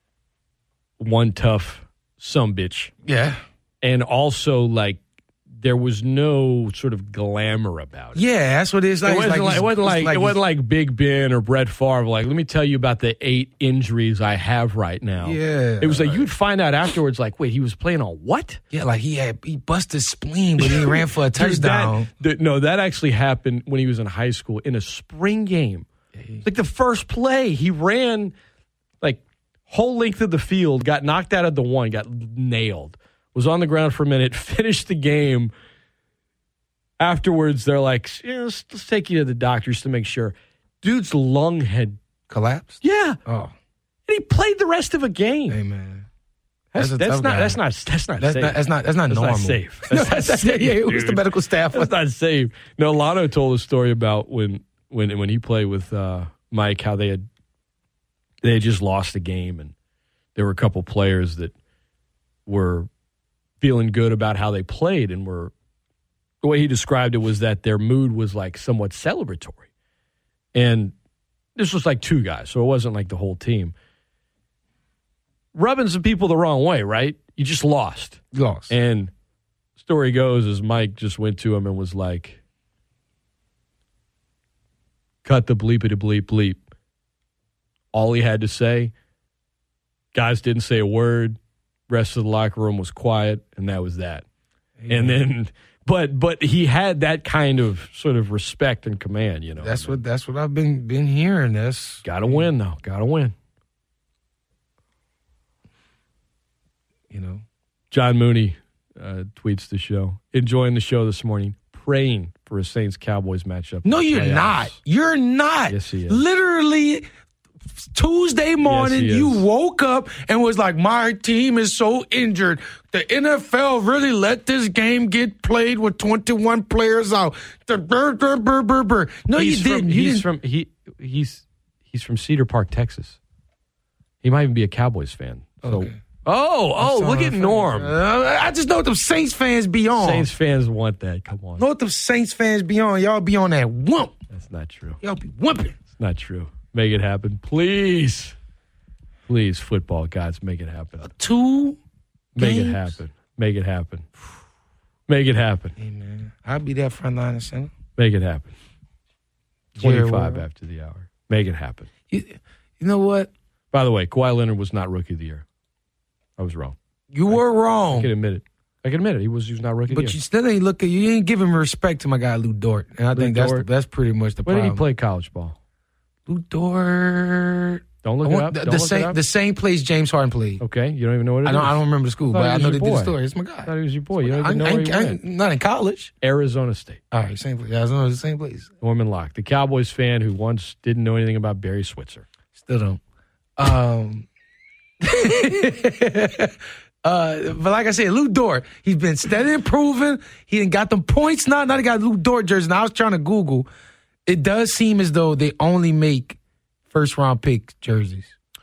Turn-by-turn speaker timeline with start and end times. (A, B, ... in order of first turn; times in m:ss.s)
0:01.0-0:02.9 A
0:03.0-0:03.4 B
0:03.8-0:05.0 A
0:05.6-0:08.2 A
0:08.2-0:10.4 B
0:09.0-0:18.6 A
0:15.2-0:16.3 B
0:18.7-0:22.1 B
0:20.6-0:25.9 A
0:26.1-0:26.4 B
0:26.4-0:28.3 A
0:29.0-0:35.5 A
0:37.0-0:42.0 A
0:42.3-0:43.5 B
0:42.8-0:43.2 A
0:44.1-0:45.6 A
0:45.5-0:46.1 B
0:46.7-0:57.3 A
0:46.8-0:47.6 B
0:48.2-0:51.9 B
0:58.4-0:59.7 A
1:00.4-1:01.5 A
1:02.5-1:02.9 A
1:03.6-1:05.5 A
1:06.4-1:09.7 A
1:10.5-1:10.9 A
1:11.6-1:13.7 A
1:15.6-1:19.1 A
1:18.3-1:18.7 B
1:19.8-1:22.4 A
1:25.2-1:26.6 A
1:27.9-1:28.9 A
1:30.1-1:31.4 A
1:31.9-1:34.2 A
1:34.8-1:35.2 B
1:34.9-1:40.0 A
1:39.6-1:42.5 B
1:42.0-1:43.3 A
1:47.1-1:47.4 B
1:47.9-1:54.8 A
1:53.8-1:57.0 B
1:55.7-1:56.2 A
1:57.8-2:10.3 B
1:58.6-1:59.4 A
2:09.3-2:13.2 A
2:14.2-2:17.9 A
2:15.6-2:16.0 B
2:16.8-2:20.3 B
2:20.0-2:21.7 A
2:21.6-2:24.2 B
2:24.3-2:25.0 A
2:25.0-2:25.8 B
2:26.0-2:28.4 A
2:29.3-2:31.1 A
2:31.0-2:31.8 B
2:32.4-2:34.1 A
2:32.4-2:33.0 B
2:35.1-2:35.8 A
2:35.8-2:37.7 B
2:38.0-2:38.5 A
2:39.8-2:40.4 B
2:39.8-2:41.9 A
2:42.1-2:43.3 B
2:43.7-2:45.4 A
2:46.4-2:46.8 A
2:47.1-2:48.1 B
2:47.3-2:50.2 A
2:49.9-2:54.8 B
2:53.1-2:53.7 A
2:54.4-2:55.6 A
2:56.3-3:00.6 B
2:58.0-2:59.2 A
3:00.6-3:05.2 A
3:01.4-3:06.1 B
3:06.2-3:07.0 A
3:07.1-3:08.7 B
3:08.8-3:12.3 A
3:12.5-3:13.0 B
3:13.6-3:14.3 B
3:15.0-3:23.7 B
3:24.3-3:26.4 B
3:26.9-3:28.3 B